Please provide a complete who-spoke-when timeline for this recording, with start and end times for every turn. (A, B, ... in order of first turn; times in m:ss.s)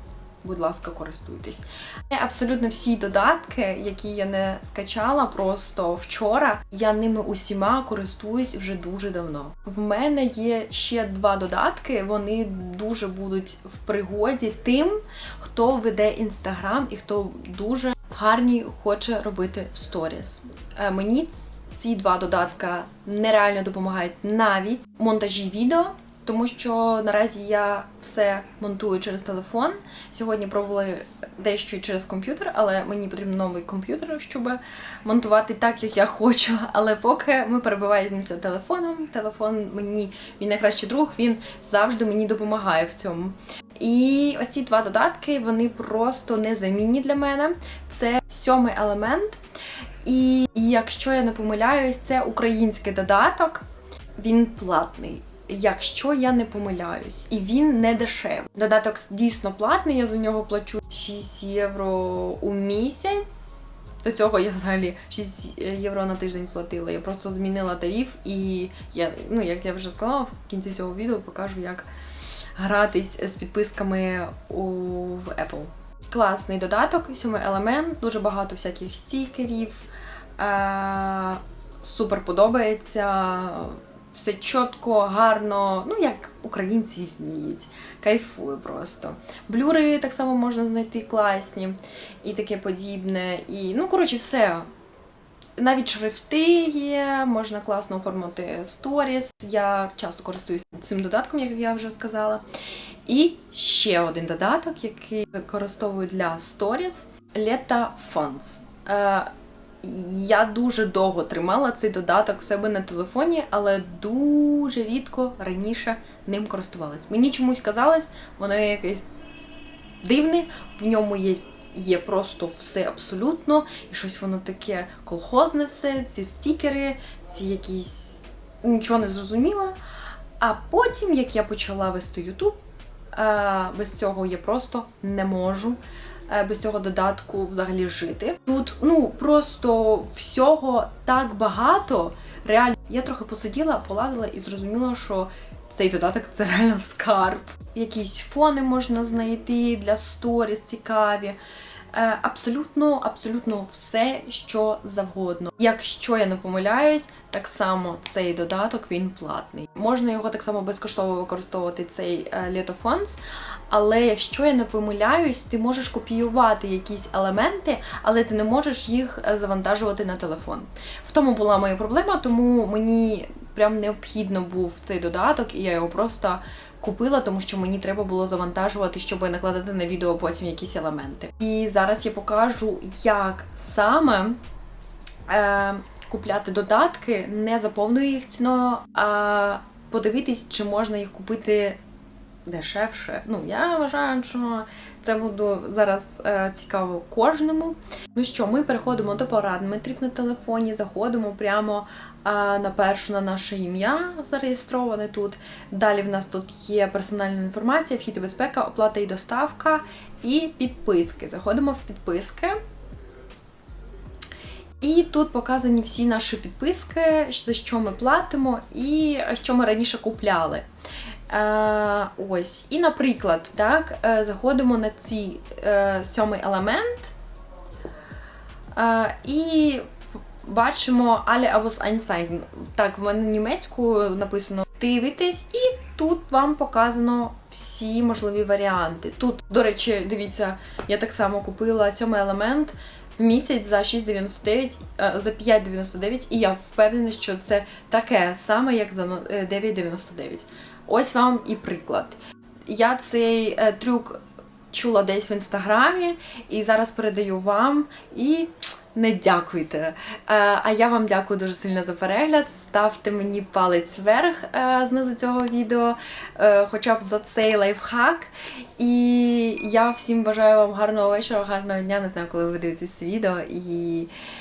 0:00.4-0:49.4 A
0:50.0-0:53.6 A
0:54.2-1:11.9 A
1:12.6-1:19.9 A
1:20.4-1:34.6 A
1:35.6-1:42.4 A
1:43.0-1:49.3 A
1:49.8-1:59.1 A
2:00.0-2:09.8 A
2:10.4-2:12.6 A
2:13.1-2:31.4 A
2:31.9-3:04.4 A
3:05.3-3:11.8 A
3:12.4-3:32.6 A
3:34.8-3:40.6 A
3:41.3-3:47.1 A
3:48.7-3:49.9 A
3:50.4-4:34.1 A